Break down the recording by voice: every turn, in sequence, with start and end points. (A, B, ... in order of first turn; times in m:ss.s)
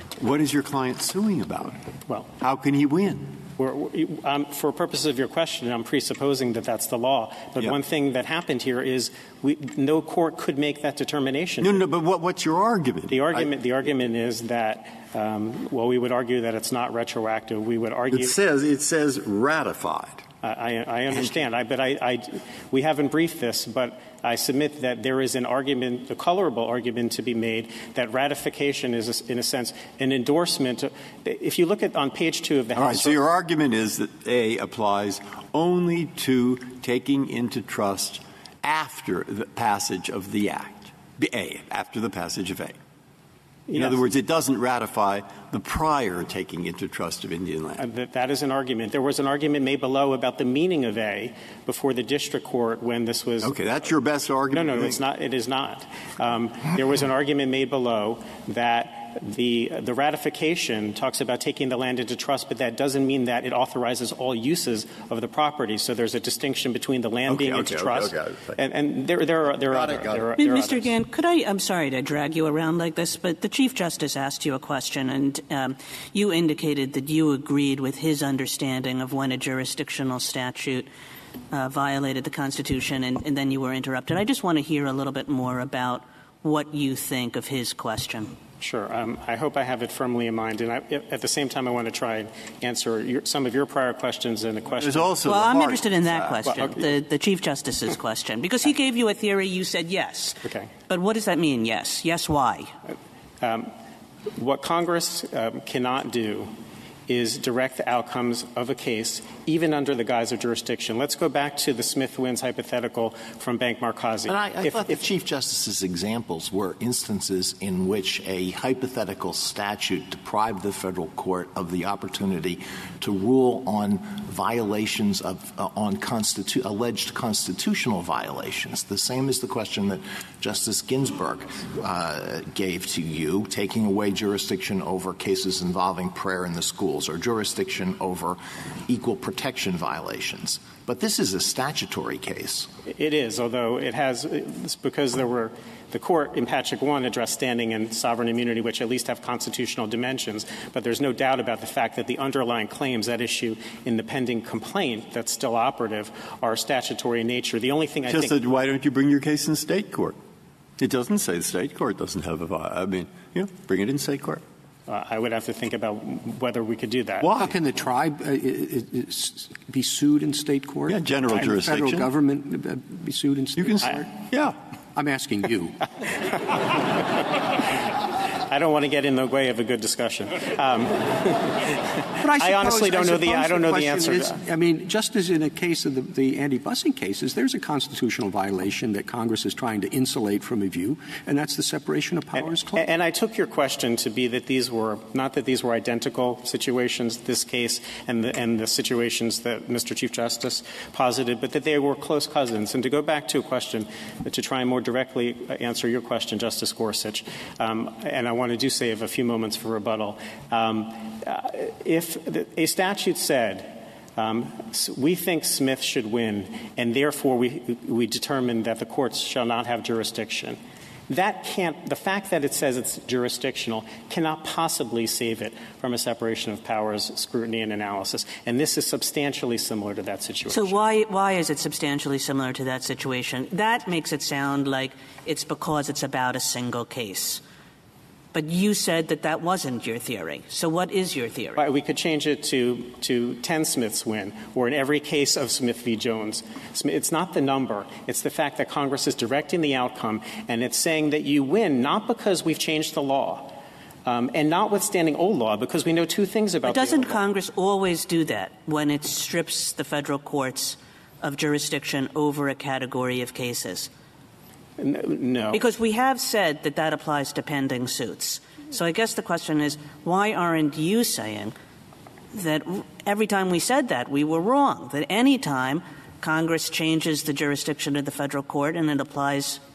0:00.2-0:01.8 A
0:02.4-0:03.4 A
0:03.6-0:11.8 B
0:11.6-0:13.5 A
0:13.1-0:18.4 B
0:18.1-0:20.2 A
0:20.4-0:33.2 B
0:32.7-0:42.8 A
0:43.7-0:44.0 B
0:43.7-0:47.8 A
0:47.8-0:53.5 B
0:53.4-0:55.0 A
0:54.5-1:10.9 B
1:07.2-1:08.6 A
1:09.5-1:10.3 A
1:10.4-1:20.9 C
1:21.5-1:28.3 C
1:28.6-1:35.1 B
1:34.8-1:36.9 A
1:35.2-1:42.7 C
1:36.4-1:36.8 B
1:40.4-1:40.7 B
1:43.4-1:43.7 B
1:44.3-1:46.5 B
1:47.1-1:55.0 B
1:54.3-2:22.7 D
2:22.8-2:38.3 B
2:38.1-2:40.2 A
2:40.8-2:44.4 A
2:44.9-2:47.3 B
2:47.2-2:54.2 E
2:50.9-2:52.1 A
2:53.6-2:54.6 A
2:54.9-2:55.8 E
2:58.5-3:01.8 B
3:02.1-3:12.9 E
3:02.4-3:04.4 B
3:12.4-3:50.8 B
3:50.5-3:57.4 C
3:58.3-4:01.6 C
4:01.6-4:17.2 B
4:16.6-4:23.9 C
4:24.8-4:25.6 B
4:25.5-4:31.5 C
4:32.3-4:39.6 C